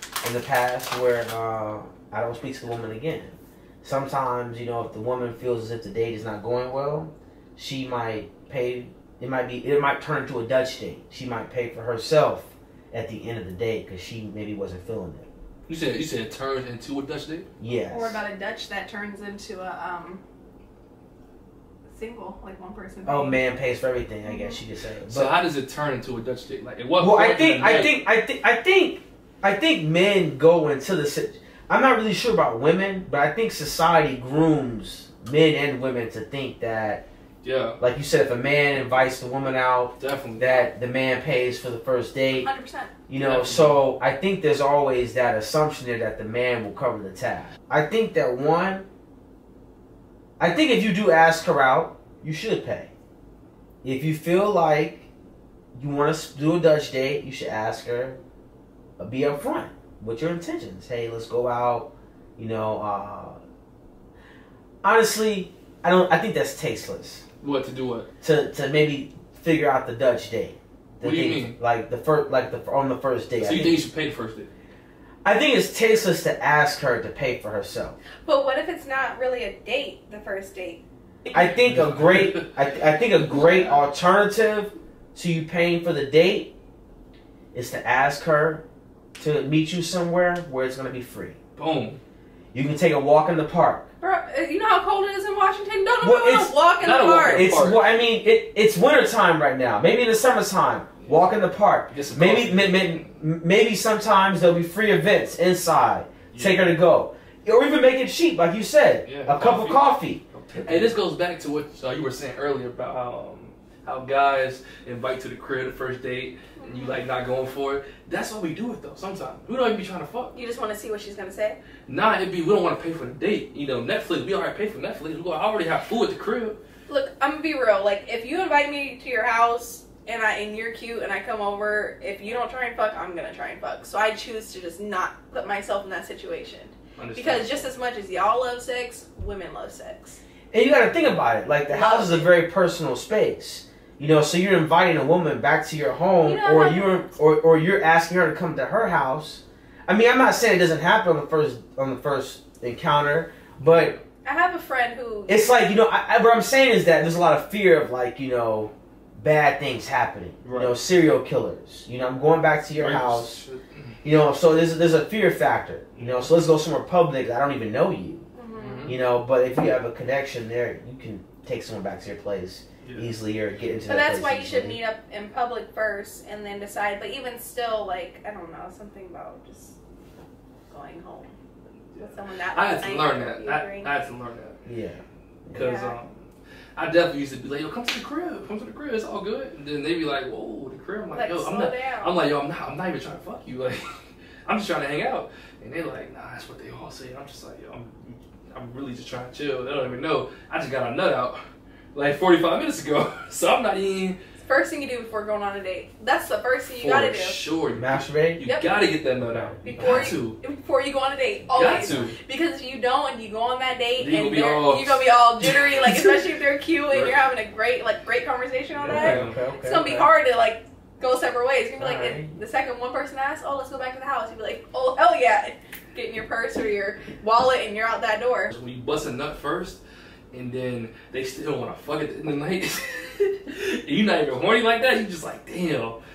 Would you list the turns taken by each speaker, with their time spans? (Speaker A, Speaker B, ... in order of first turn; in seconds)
Speaker A: 0.2-15.3, 17.6-18.2, 23.0-25.4, 27.0-37.0, 37.8-42.5, 43.1-48.9, 50.4-52.9, 53.8-55.1, 55.7-58.2, 59.0-63.4, 64.8-67.2, 68.2-73.8, 75.2-78.0, 81.3-86.5, 87.5-88.6, 89.2-91.4, 92.5-93.9, 96.0-96.6, 97.3-110.9, 140.5-153.9, 155.3-163.4, 164.0-168.3, 168.8-174.8, 184.7-185.7, 207.7-208.4, 209.2-210.1, 211.8-212.1, 218.8-220.1, 221.8-222.3
Speaker B: 15.7-17.5, 25.1-28.0, 37.4-37.8, 40.0-40.6, 43.2-43.8, 67.4-68.1, 71.0-71.6, 73.4-74.5, 81.3-82.5, 83.3-83.8, 91.5-92.0, 96.8-97.9, 101.0-101.3, 101.9-103.1, 106.3-106.7, 109.0-120.3, 121.9-126.6, 137.0-137.6, 153.6-154.0, 160.4-160.8, 162.8-164.0, 165.9-166.3, 168.6-169.0, 172.8-173.1, 181.9-184.6, 185.5-186.1, 186.8-193.8, 194.4-201.4, 201.9-204.2, 206.7-210.4, 211.5-212.2, 214.0-216.2, 216.9-217.2, 218.7-219.4, 228.5-229.8, 230.3-236.0
Speaker C: 17.9-20.2, 21.9-23.4, 24.2-24.6, 42.3-42.9, 78.2-80.8, 94.0-97.5, 116.6-117.0, 120.3-121.6, 126.9-140.2, 141.7-142.3, 146.2-146.9, 154.2-155.4, 168.3-168.9, 173.9-179.8, 180.7-181.3, 182.0-183.9, 185.5-186.0, 191.1-192.2, 204.4-207.4, 208.4-208.7, 209.6-228.5